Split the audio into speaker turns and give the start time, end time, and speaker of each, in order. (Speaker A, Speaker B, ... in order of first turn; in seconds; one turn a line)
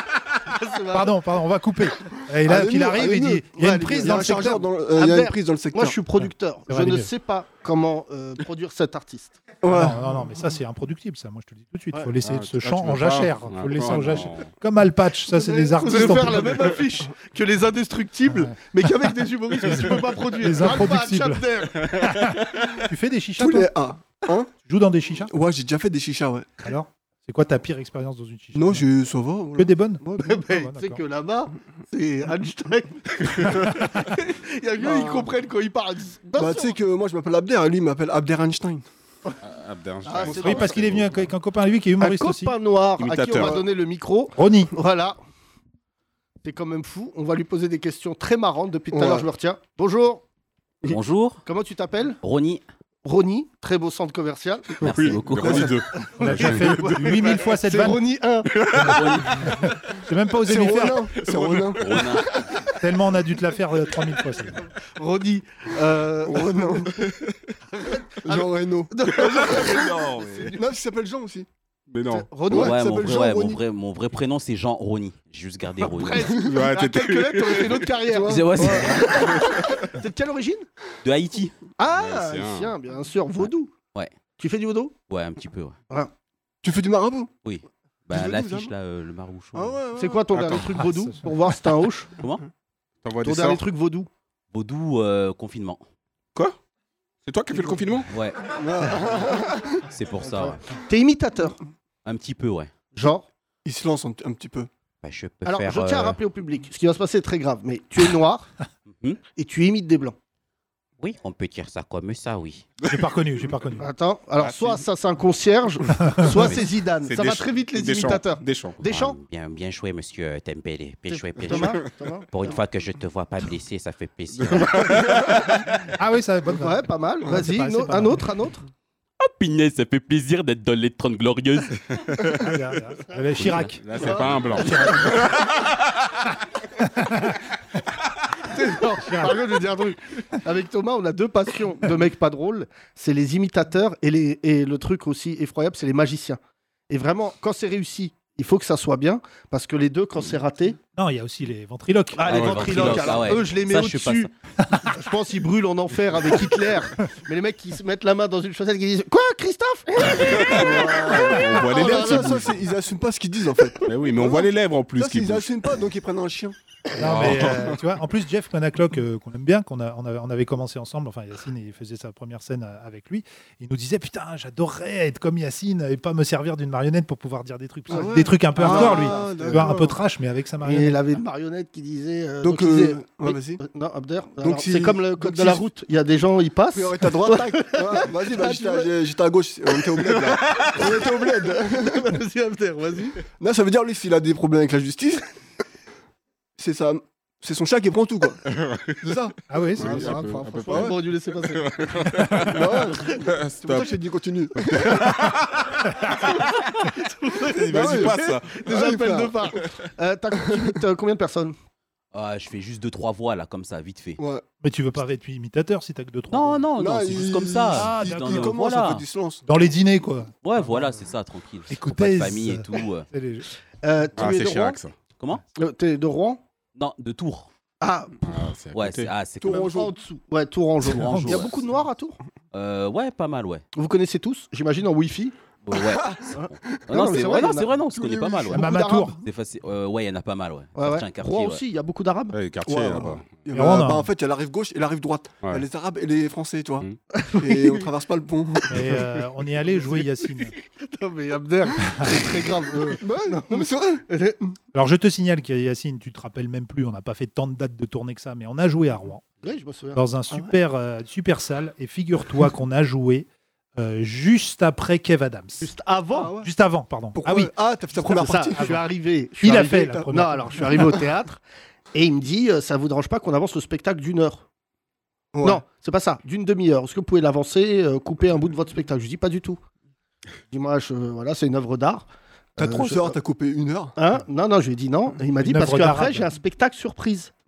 Speaker A: 0.5-1.1
Speaker B: 0.9-4.6
Speaker C: 2.5-6.0
Speaker A: 3.6-9.4
Speaker B: 6.7-7.1
Speaker C: 9.6-10.0
Speaker B: 9.7-16.7
Speaker D: 12.2-14.5
Speaker A: 15.3-21.8
Speaker C: 15.9-16.2
Speaker B: 18.4-18.9
Speaker B: 19.7-21.4
Speaker D: 21.9-22.7
Speaker B: 22.0-23.7
Speaker C: 23.4-24.5
Speaker B: 24.6-25.3
Speaker C: 25.3-26.5
Speaker B: 26.6-28.9
Speaker C: 28.6-29.8
Speaker B: 29.6-31.0
Speaker A: 30.2-36.8
Speaker C: 34.8-35.3
Speaker C: 36.4-38.9
Speaker D: 39.4-41.3
Speaker A: 40.0-40.8
Speaker B: 40.3-42.5
Speaker A: 42.0-45.2
Speaker D: 43.0-43.6
Speaker B: 44.4-44.7
Speaker A: 46.4-50.2
Speaker C: 48.9-49.3
Speaker E: 50.9-51.4
Speaker A: 51.5-52.2
Speaker E: 52.2-52.6
Speaker A: 53.0-58.5
Speaker D: 54.8-57.3
Speaker E: 54.8-55.8
Speaker C: 55.5-55.7
Speaker B: 56.2-58.0
Speaker D: 58.5-59.7
Speaker E: 58.9-59.5
Speaker B: 59.5-61.1
Speaker C: 60.4-62.1
Speaker D: 61.2-62.0
Speaker E: 61.8-62.5
Speaker B: 62.8-64.6
Speaker A: 65.0-67.1
Speaker C: 66.3-66.9
Speaker D: 67.0-67.5
Speaker A: 67.7-70.7
Speaker C: 68.2-69.5
Speaker D: 69.2-70.5
Speaker C: 70.6-71.5
Speaker D: 71.9-72.7
Speaker A: 72.1-72.8
Speaker E: 72.5-76.4
Speaker C: 72.5-73.6
Speaker A: 75.8-80.7
Speaker D: 76.4-77.9
Speaker C: 78.1-79.4
Speaker E: 78.3-79.2
Speaker D: 79.1-79.8
Speaker E: 81.0-81.5
Speaker A: 81.8-83.7
Speaker D: 81.9-82.7
Speaker A: 84.4-84.9
Speaker E: 85.1-85.8
Speaker C: 86.6-87.3
Speaker E: 87.4-89.8
Speaker C: 88.1-88.7
Speaker C: 89.5-90.3
Speaker A: 90.0-92.2
Speaker D: 90.3-90.8
Speaker B: 90.7-91.3
Speaker D: 93.0-93.6
Speaker A: 93.2-94.1
Speaker E: 94.5-95.8
Speaker D: 97.3-98.1
Speaker E: 98.1-99.0
Speaker C: 98.5-99.8
Speaker E: 99.9-100.6
Speaker A: 100.2-101.6
Speaker E: 102.0-102.7
Speaker A: 103.0-103.3
Speaker C: 103.7-104.7
Speaker E: 105.0-106.2
Speaker A: 105.5-108.5
Speaker A: 109.4-110.2
Speaker E: 111.0-112.7
Speaker B: 112.9-113.9
Speaker A: 113.8-119.2
Speaker D: 114.4-114.8
Speaker D: 116.5-118.8
Speaker E: 118.9-125.2
Speaker A: 121.1-122.6
Speaker D: 121.5-121.8
Speaker D: 124.3-125.7
Speaker B: 126.0-128.2
Speaker A: 126.5-128.7
Speaker E: 129.2-131.8
Speaker D: 132.1-132.5
Speaker B: 132.4-135.2
Speaker E: 133.4-133.7
Speaker D: 133.4-135.8
Speaker A: 133.9-135.2
Speaker B: 136.8-137.4
Speaker A: 138.5-146.4
Speaker B: 139.0-139.4
Speaker A: 146.9-150.8
Speaker B: 151.0-152.5
Speaker A: 152.2-154.3
Speaker E: 152.3-154.3
Speaker D: 152.3-153.3
Speaker A: 154.9-162.5
Speaker D: 160.2-162.6
Speaker C: 160.5-167.5
Speaker D: 163.8-165.5
Speaker B: 167.0-181.0
Speaker D: 167.0-167.8
Speaker C: 177.9-180.0
Speaker A: 177.9-179.7
Speaker A: 180.6-188.9
Speaker C: 182.4-183.6
Speaker C: 184.4-185.6
Speaker C: 186.8-192.0
Speaker A: 189.9-193.2
Speaker C: 193.4-195.2
Speaker C: 196.6-198.4
Speaker D: 198.5-199.1
Speaker C: 199.0-200.1
Speaker B: 199.5-200.3
Speaker D: 199.8-204.0
Speaker A: 199.8-202.1
Speaker C: 200.6-201.0
Speaker C: 202.5-205.0
Speaker D: 204.6-206.4
Speaker A: 206.3-211.6
Speaker D: 207.5-208.6
Speaker C: 207.7-209.4
Speaker E: 212.1-214.2
Speaker C: 214.2-214.4
Speaker B: 214.6-217.2
Speaker E: 216.3-219.1
Speaker C: 216.8-219.4
Speaker B: 217.7-218.6
Speaker B: 219.5-221.0
Speaker E: 220.4-223.1
Speaker B: 221.7-223.5
Speaker A: 223.8-224.8
Speaker D: 224.2-224.9
Speaker A: 225.6-226.4
Speaker E: 226.8-227.5
Speaker A: 227.8-228.2
Speaker D: 228.2-229.1
Speaker E: 228.7-229.8
Speaker C: 229.4-229.9
Speaker A: 229.5-232.2
Speaker E: 230.8-231.6
Speaker B: 231.0-231.4
Speaker E: 232.5-233.6
Speaker A: 233.8-235.3
Speaker E: 235.7-241.6
Speaker C: 235.8-238.5
Speaker A: 236.4-237.8
Speaker A: 238.5-239.2
Speaker B: 238.5-239.2
Speaker A: 240.8-242.4
Speaker D: 242.3-243.4
Speaker C: 242.7-246.9
Speaker B: 243.5-244.1
Speaker A: 247.1-247.9
Speaker C: 247.4-249.0
Speaker B: 248.7-250.5
Speaker A: 250.7-254.5
Speaker C: 253.0-254.0
Speaker B: 254.7-259.2
Speaker A: 259.4-260.0
Speaker B: 259.9-263.3
Speaker B: 263.8-265.7
Speaker A: 265.6-266.4
Speaker C: 266.1-266.5
Speaker B: 266.4-267.5
Speaker C: 267.1-268.8
Speaker A: 268.0-271.4
Speaker B: 268.6-268.8
Speaker B: 269.4-270.9
Speaker A: 271.9-274.4
Speaker C: 275.3-275.6
Speaker A: 275.4-279.6
Speaker A: 280.5-283.2
Speaker C: 282.6-283.9
Speaker A: 284.0-287.3
Speaker B: 285.4-286.3